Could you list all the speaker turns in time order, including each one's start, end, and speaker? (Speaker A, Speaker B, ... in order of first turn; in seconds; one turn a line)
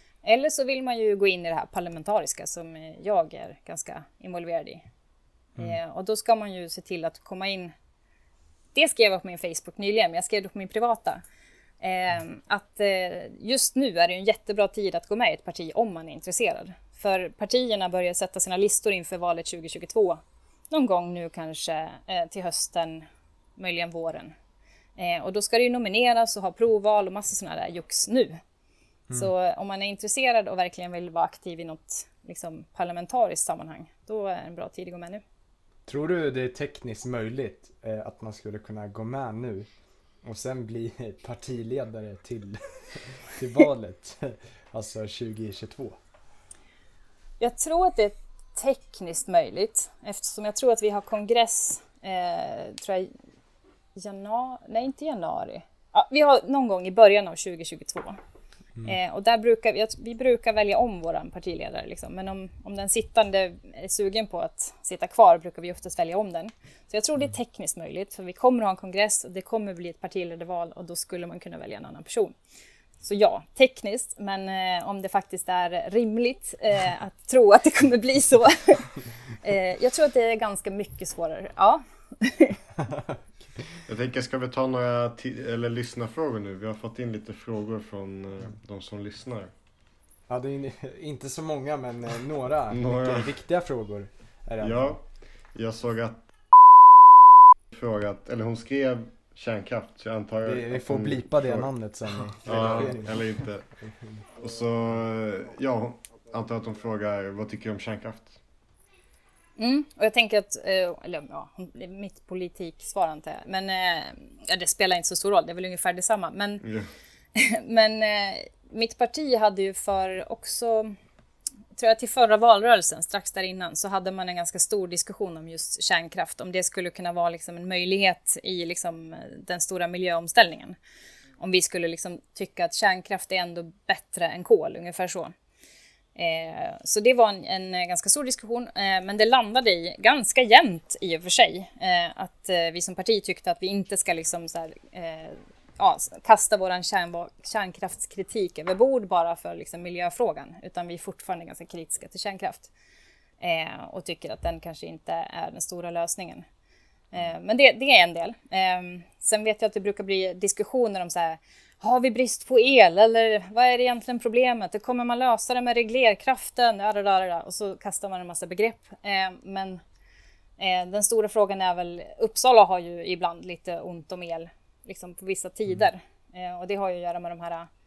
Speaker A: 0.2-4.8
Speaker A: 5.6-7.7
Speaker A: 8.7-11.2
Speaker A: 11.8-23.1
Speaker A: 23.6-24.3
Speaker A: 25.0-28.4
Speaker A: 29.1-35.2
Speaker B: 35.9-39.7
Speaker B: 40.2-46.0
Speaker A: 47.4-53.1
Speaker A: 54.0-58.2
Speaker A: 58.9-72.3
Speaker A: 73.0-82.6
Speaker B: 82.8-83.6
Speaker C: 83.9-89.5
Speaker B: 90.3-95.0
Speaker C: 92.7-93.3
Speaker C: 94.6-96.2
Speaker C: 97.7-101.7
Speaker B: 100.4-104.2
Speaker C: 102.3-103.7
Speaker C: 104.4-108.4
Speaker A: 109.6-116.6
Speaker C: 116.6-116.9
Speaker A: 117.3-121.0
Speaker A: 121.8-130.8
Speaker A: 131.4-135.3
Speaker A: 136.2-152.7
Speaker A: 153.4-156.4
Speaker A: 157.1-169.8
Speaker A: 170.6-177.7